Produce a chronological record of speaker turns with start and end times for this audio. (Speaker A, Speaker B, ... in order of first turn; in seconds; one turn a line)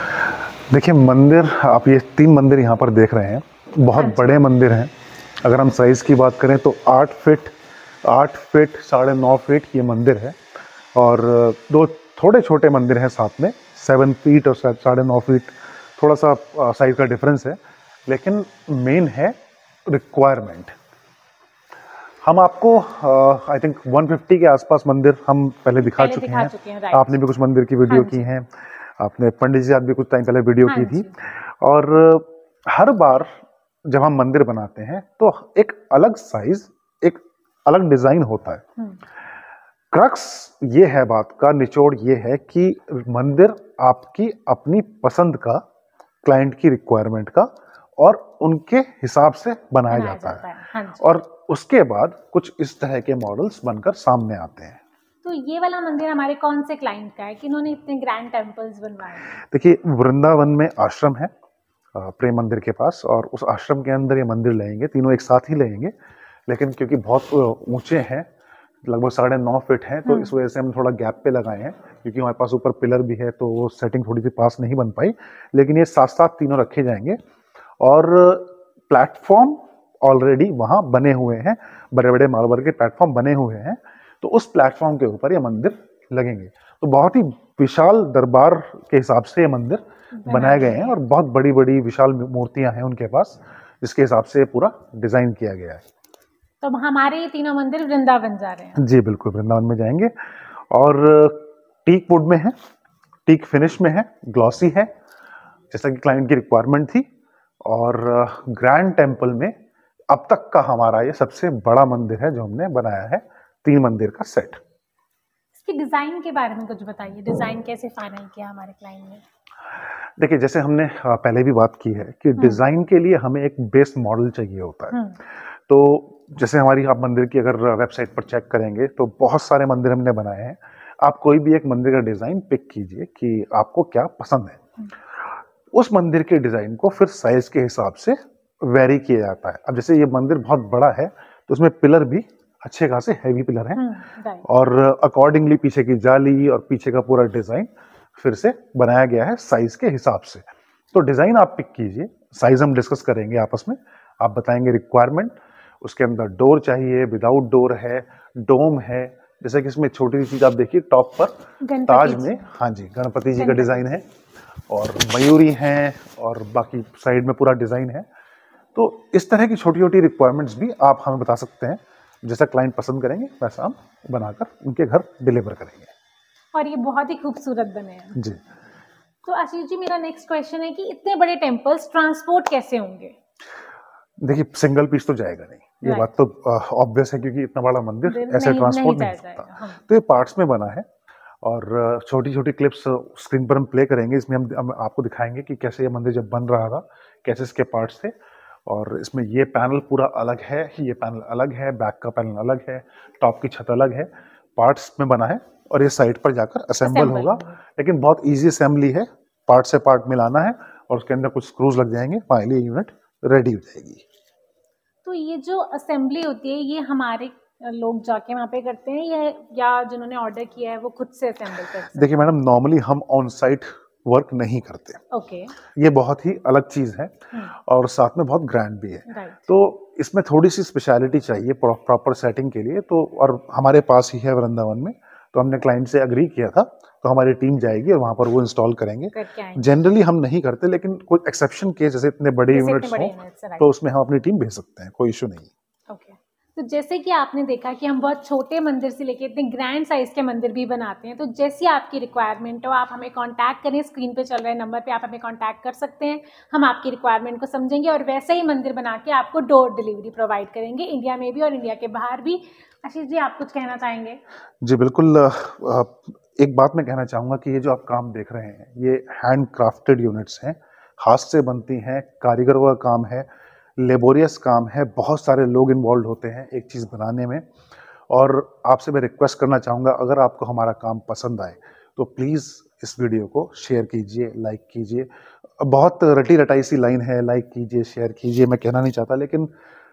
Speaker A: 0.7-4.9
Speaker B: 4.0-4.3
Speaker A: 5.4-7.5
Speaker A: 8.1-10.4
Speaker A: 10.9-20.7
Speaker A: 22.2-33.4
Speaker B: 25.8-27.1
Speaker B: 27.9-28.2
Speaker B: 30.7-31.1
Speaker A: 33.9-38.7
Speaker A: 39.9-45.6
Speaker A: 46.2-50.5
Speaker B: 49.9-51.0
Speaker A: 51.0-54.8
Speaker B: 55.2-59.3
Speaker A: 59.3-61.3
Speaker A: 62.0-65.9
Speaker A: 66.5-68.3
Speaker A: 68.8-77.2
Speaker A: 77.8-95.8
Speaker B: 90.2-91.0
Speaker B: 96.6-98.8
Speaker A: 98.8-100.1
Speaker A: 100.7-102.5
Speaker A: 103.3-104.9
Speaker A: 105.7-107.1
Speaker A: 107.7-109.5
Speaker A: 110.1-114.6
Speaker B: 115.6-119.2
Speaker A: 120.2-125.1
Speaker A: 125.7-134.6
Speaker A: 135.7-143.8
Speaker B: 143.8-144.4
Speaker A: 144.4-161.3
Speaker B: 161.6-162.4
Speaker A: 161.9-164.0
Speaker B: 163.4-163.8
Speaker A: 164.7-168.1
Speaker A: 168.8-175.9
Speaker B: 176.5-178.2
Speaker B: 179.2-183.1
Speaker A: 184.2-190.8
Speaker B: 188.1-189.8
Speaker A: 191.4-198.1
Speaker A: 198.7-214.0
Speaker B: 206.8-207.5
Speaker B: 215.1-222.1
Speaker A: 221.9-225.0
Speaker B: 225.1-225.5
Speaker A: 225.7-245.5
Speaker B: 229.1-229.4
Speaker B: 239.1-239.7
Speaker B: 242.5-243.7
Speaker B: 245.9-264.2
Speaker A: 264.6-273.3
Speaker A: 273.8-277.4
Speaker A: 278.1-285.1
Speaker A: 285.6-289.5